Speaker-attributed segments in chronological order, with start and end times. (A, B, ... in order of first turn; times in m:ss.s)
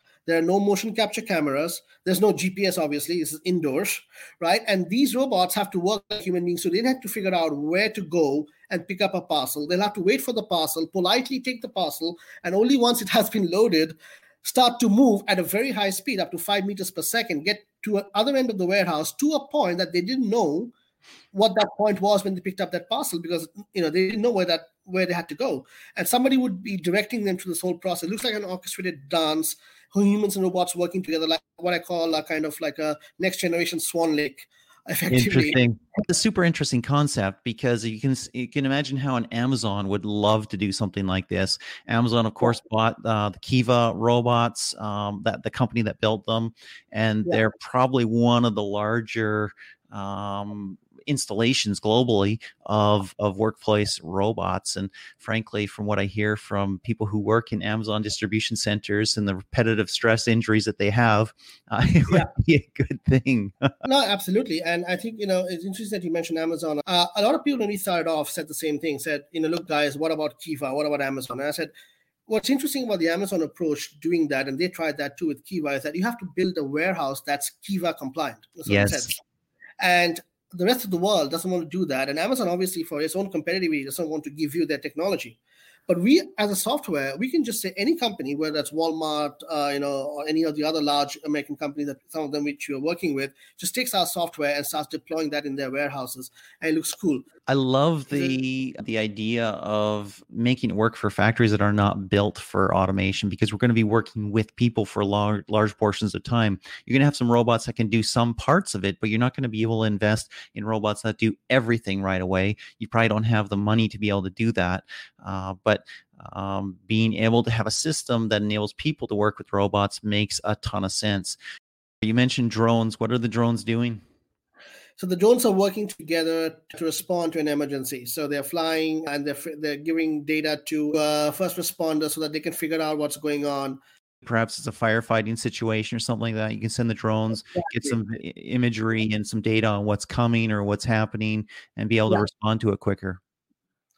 0:00.2-0:20.7 A
0:21.3-0:35.6 A
0:35.1-1:03.7 B
1:03.8-1:11.7 A
1:12.3-1:19.2 A
1:18.7-1:19.1 B
1:19.8-1:37.2 A
1:37.5-2:01.4 B
2:02.0-2:04.0 B
2:05.0-2:13.8 A
2:14.2-2:23.2 B
2:17.6-2:18.0 A